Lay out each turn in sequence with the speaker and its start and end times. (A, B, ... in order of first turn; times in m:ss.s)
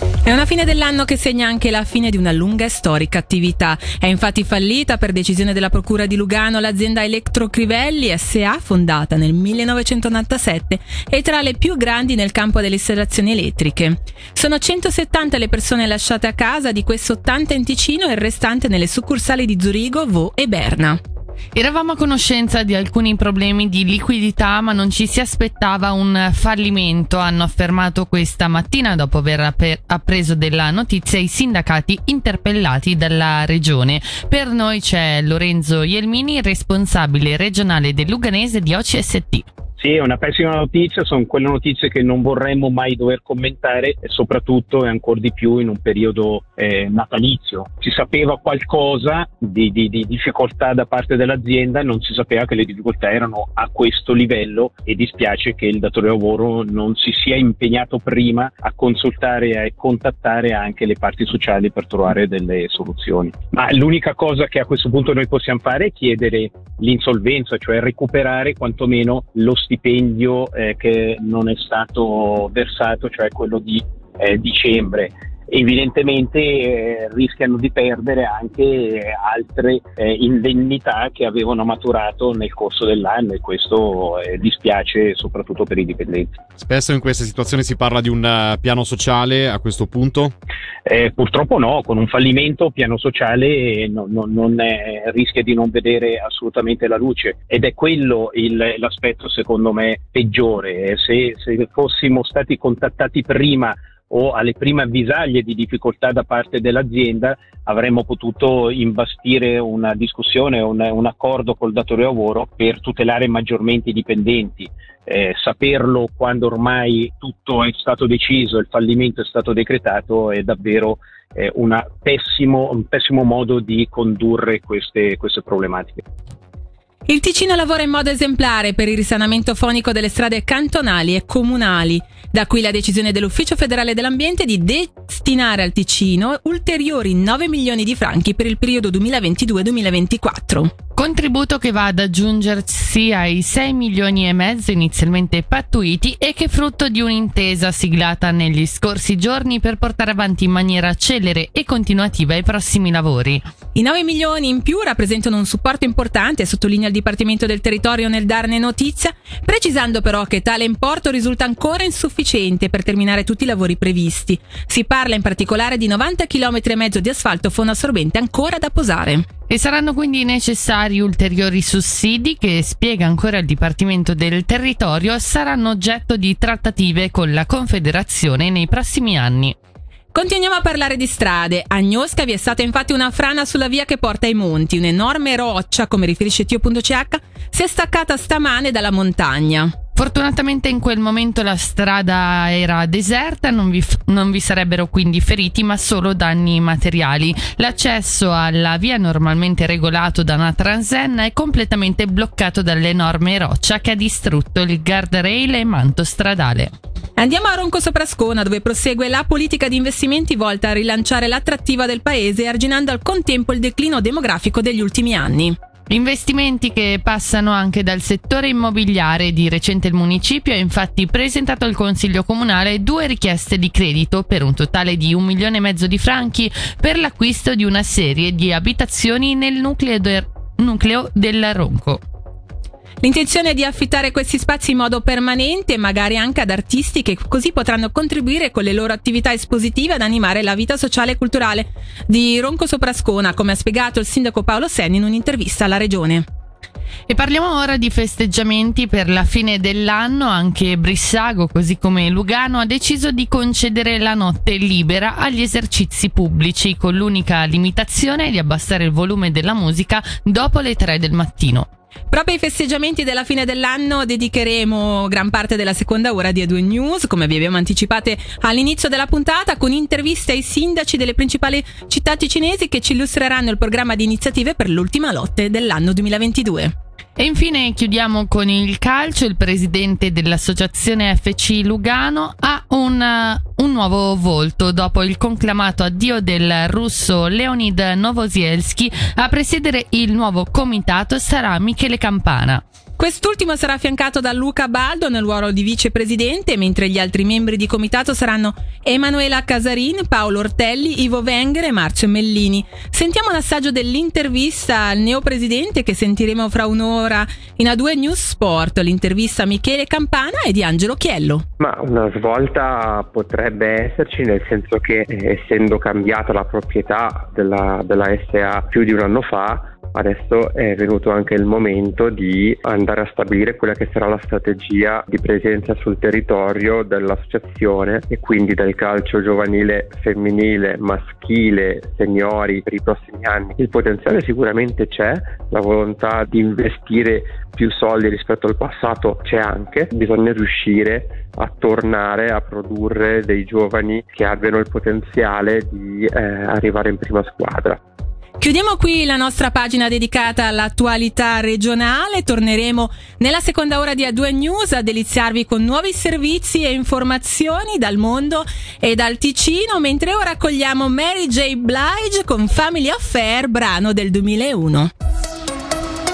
0:00.2-0:21.0 A
0:21.6-0:39.4 B
0:39.8-1:26.3 C
1:26.6-1:30.3 D
1:30.9-2:06.0 C
2:07.1-2:20.7 A
2:20.9-2:33.4 B
2:33.7-2:49.3 A
2:49.5-2:59.5 B
3:00.1-3:09.7 A
3:10.0-3:26.7 B
3:27.2-3:35.6 A
3:35.9-3:52.0 B
3:53.0-4:06.2 A
4:07.1-4:21.7 B
4:22.1-4:36.7 A
4:37.2-4:52.6 B
4:53.0-5:11.4 A
5:11.6-5:47.8 E
5:48.4-6:04.9 A